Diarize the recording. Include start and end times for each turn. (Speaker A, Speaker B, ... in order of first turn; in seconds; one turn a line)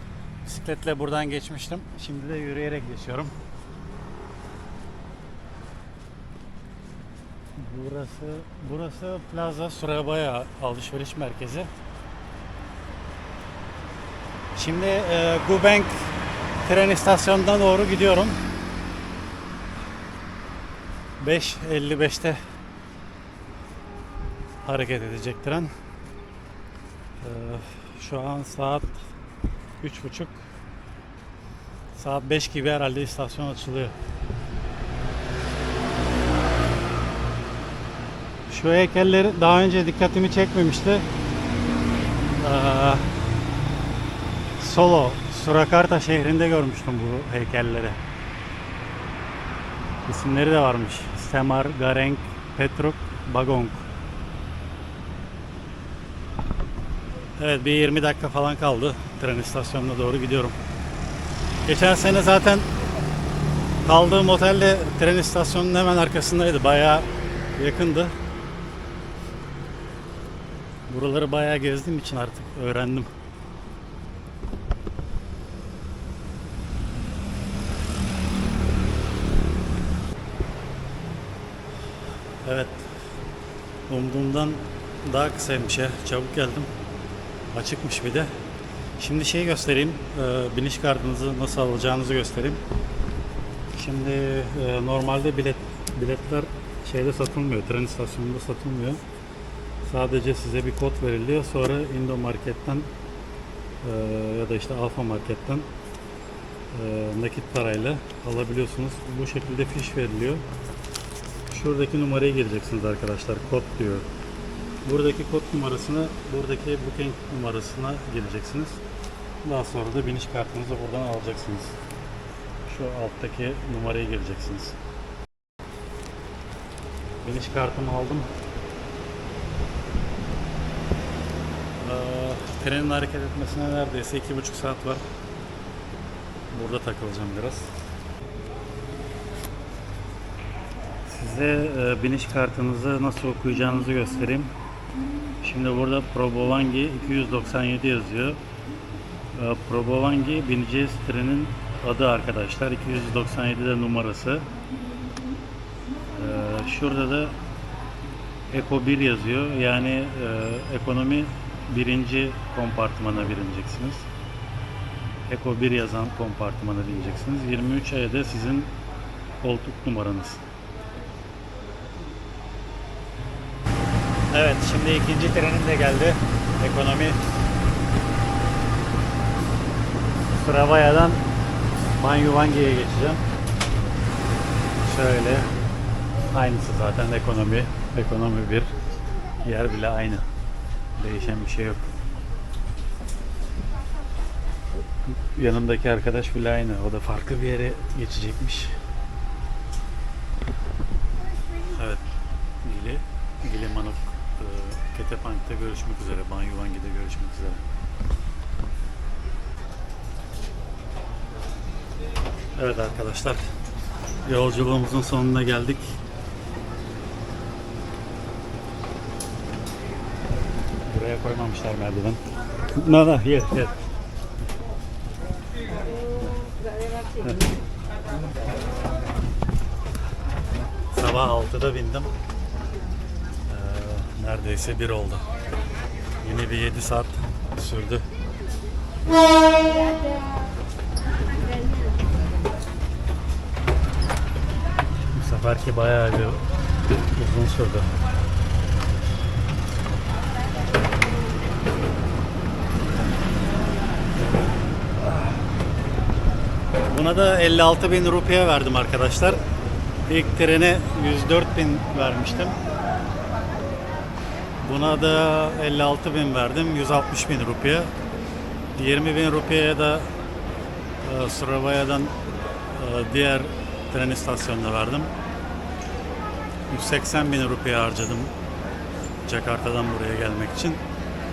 Speaker A: 0.4-3.3
Speaker A: 7.6-11.7
Speaker A: 14.6-16.1
Speaker A: 16.6-18.4
Speaker A: 21.2-22.4
Speaker A: 24.6-25.7
Speaker A: 27.2-29.0
Speaker A: 29.8-30.4
Speaker A: 31.9-34.0
Speaker A: 38.5-41.1
Speaker A: 42.4-43.1
Speaker A: 44.6-48.0
Speaker A: 50.0-53.9
Speaker A: 57.4-60.5
Speaker A: 61.7-62.7
Speaker A: 63.9-68.1
Speaker A: 70.9-73.1
Speaker A: 82.4-83.0
Speaker A: 83.9-86.7
Speaker A: 87.5-88.3
Speaker A: 89.0-92.6
Speaker A: 93.7-99.0
Speaker A: 99.8-102.9
Speaker A: 103.8-105.7
Speaker A: 106.7-110.5
Speaker A: 111.5-114.1
Speaker A: 114.8-118.8
Speaker A: 119.4-121.8
Speaker A: 122.7-124.8
Speaker A: 127.2-128.3
Speaker A: 131.8-135.0
Speaker A: 136.5-137.7
Speaker A: 141.1-144.5
Speaker A: 145.4-148.4
Speaker A: 149.3-154.5
Speaker A: 156.2-157.4
Speaker A: 158.5-164.1
Speaker A: 165.3-168.7
Speaker A: 169.4-170.4
Speaker A: 174.3-177.2
Speaker A: 180.3-181.2
Speaker A: 181.9-183.2
Speaker A: 184.8-185.5
Speaker A: 186.3-188.7
Speaker A: 189.4-190.3
Speaker A: 191.0-191.9
Speaker A: 195.2-198.8
Speaker A: 201.7-202.0
Speaker A: 202.6-207.6
Speaker A: 212.6-213.4
Speaker A: 214.2-216.0
Speaker A: 220.8-223.8
Speaker A: 227.2-227.5
Speaker A: 230.9-232.1
Speaker A: 233.5-235.3
Speaker A: 236.2-238.1
Speaker A: 245.1-246.4
Speaker A: 247.1-247.9
Speaker A: 256.9-259.4
Speaker A: 260.1-262.6
Speaker A: 264.6-267.9
Speaker A: 268.8-270.1
Speaker A: 271.0-272.1
Speaker A: 272.8-275.1
Speaker A: 276.7-278.3
Speaker A: 279.2-280.8